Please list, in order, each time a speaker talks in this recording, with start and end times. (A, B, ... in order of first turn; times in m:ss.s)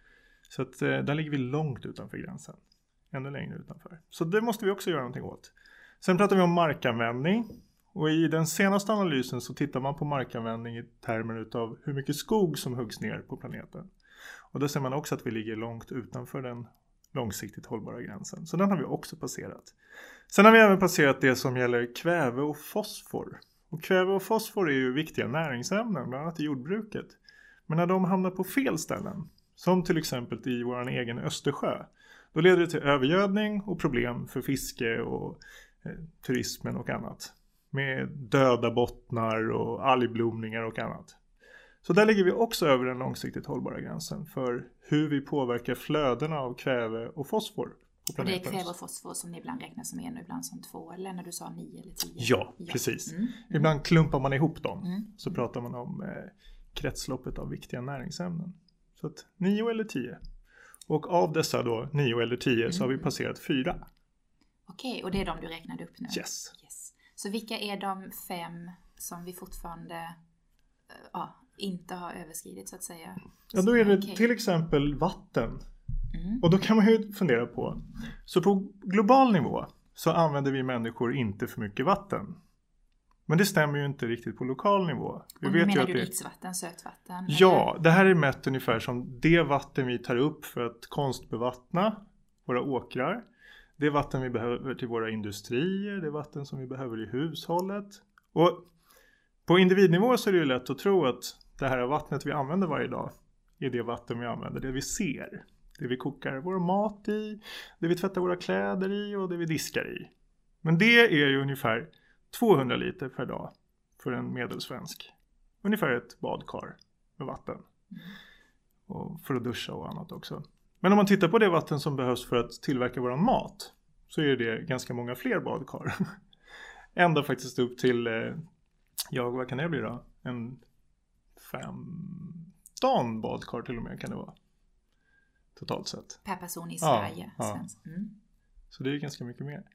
0:00.5-0:02.6 A
0:03.1-0:13.9 A
0:14.5-0:19.7 A
0:20.3-0:41.2 A
0:41.8-0:48.7 A
0:48.2-0:53.7 B
0:52.2-1:00.2 A
0:54.8-0:55.2 B
1:00.9-1:03.8 A
1:02.7-1:03.0 B
1:04.7-1:10.2 B
1:06.1-1:06.5 A
1:10.9-1:14.2 B
1:13.5-1:15.6 A
1:16.1-1:16.4 B
1:16.4-1:22.4 A
1:23.3-1:26.1 A
1:25.4-1:27.7 B
1:27.3-1:33.2 A
1:33.8-1:38.6 A
1:39.5-1:50.1 A
1:50.6-1:57.6 A
1:58.9-2:05.9 A
2:07.0-2:08.4 A
2:09.1-2:10.6 A
2:11.4-2:14.4 A
2:15.6-2:16.2 A
2:16.2-2:18.1 B
2:16.8-2:17.6 A
2:18.7-2:19.7 A